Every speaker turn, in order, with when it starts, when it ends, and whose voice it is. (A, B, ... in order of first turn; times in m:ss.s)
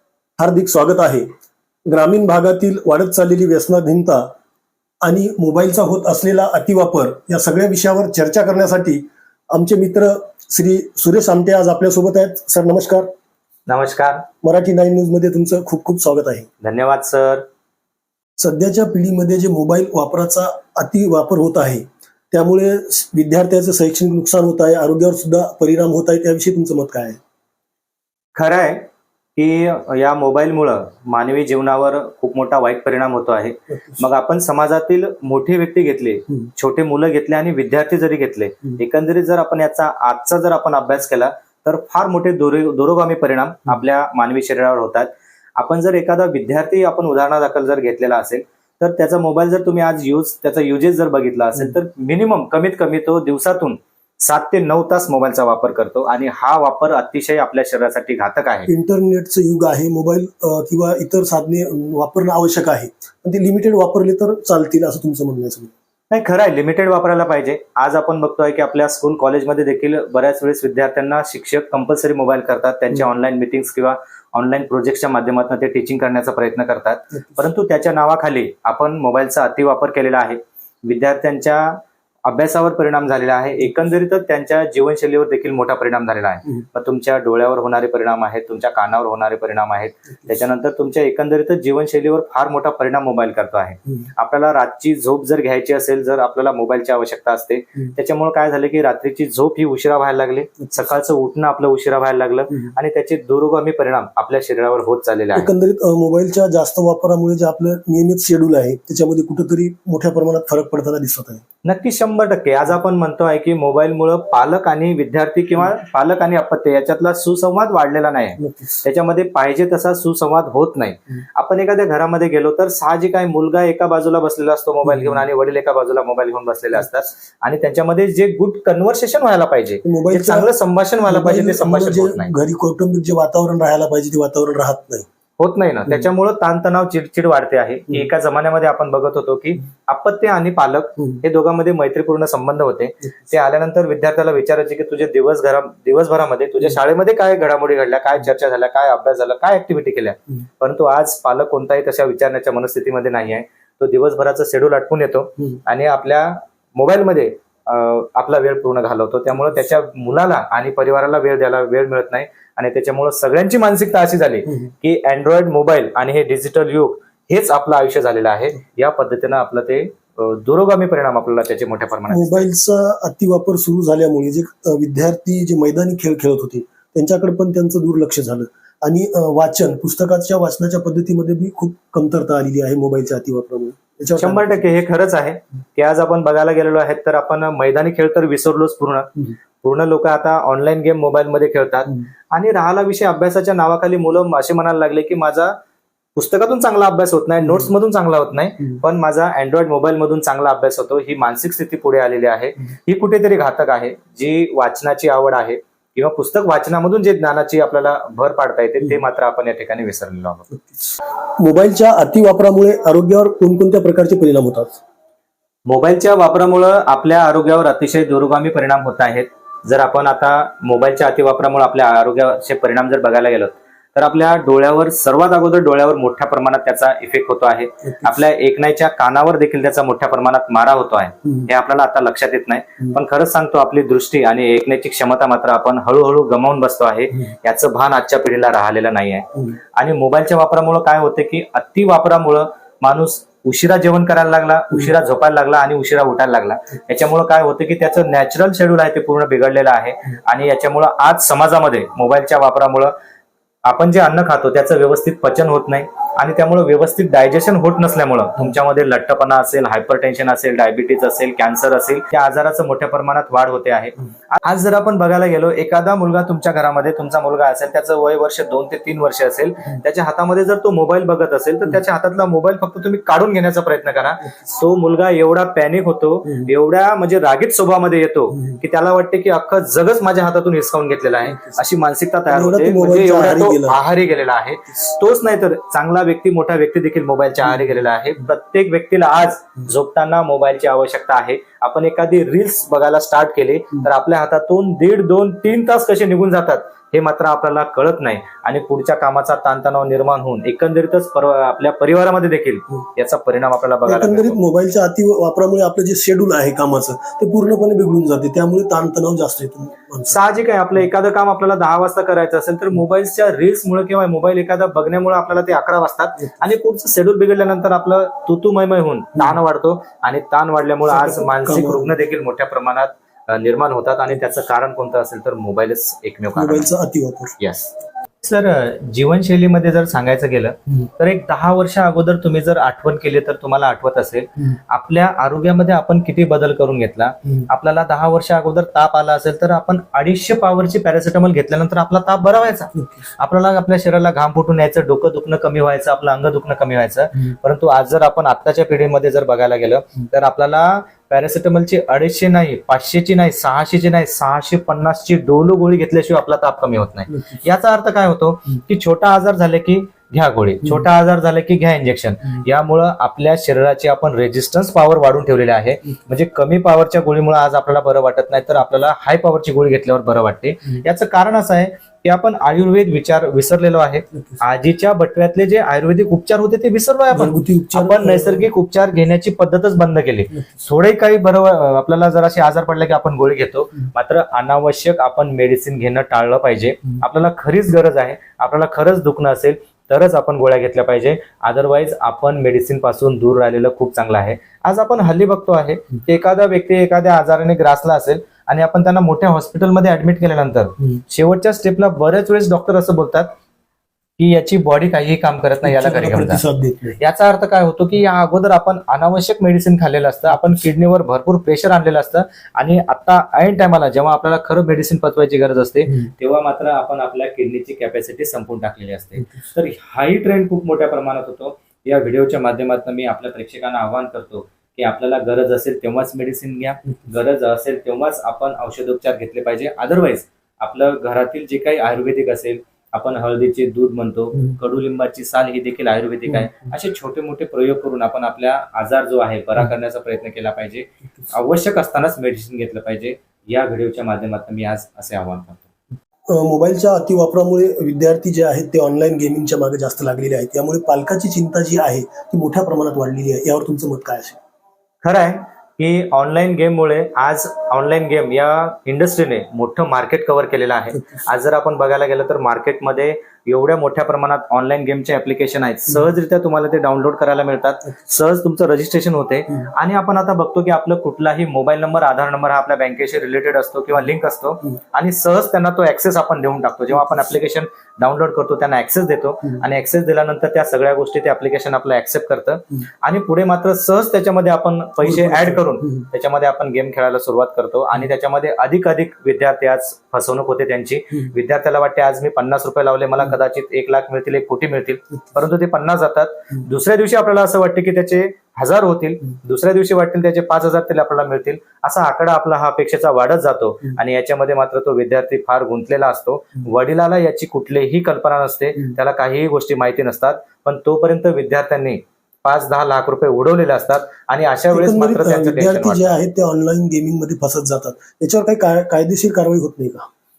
0:00.4-0:01.2 A
0:01.9-0:04.3 A
0:05.0-0:13.1 A
0:13.7-0:14.3 B
0:14.4-0:16.5 A
0:16.6-0:17.4 B
0:18.4-0:27.2 A
0:28.4-0:58.7 B
0:58.7-1:05.7 A
1:06.1-1:45.5 B
1:45.4-1:51.4 A
1:51.6-2:12.3 B
1:58.4-1:58.8 A
2:09.8-2:10.5 A
2:11.1-2:15.1 A
2:15.4-2:52.4 B
2:52.1-3:04.7 A
3:04.2-3:09.1 B
3:09.6-3:15.6 B
3:16.2-3:30.5 B
3:31.4-3:34.8 A
3:35.7-4:12.9 B
4:13.6-5:04.4 B
4:42.3-4:43.8 A
5:03.9-5:10.2 A
5:10.1-5:26.7 B
5:20.9-5:21.9 A
5:26.4-5:27.4 A
5:27.4-6:43.3 B
6:17.1-6:18.5 A
6:44.2-6:46.4 B
6:45.6-6:47.0 A
6:47.0-7:25.7 B
7:26.3-7:34.4 A
7:35.0-8:36.2 B
8:05.1-8:06.0 A
8:34.7-8:40.1 A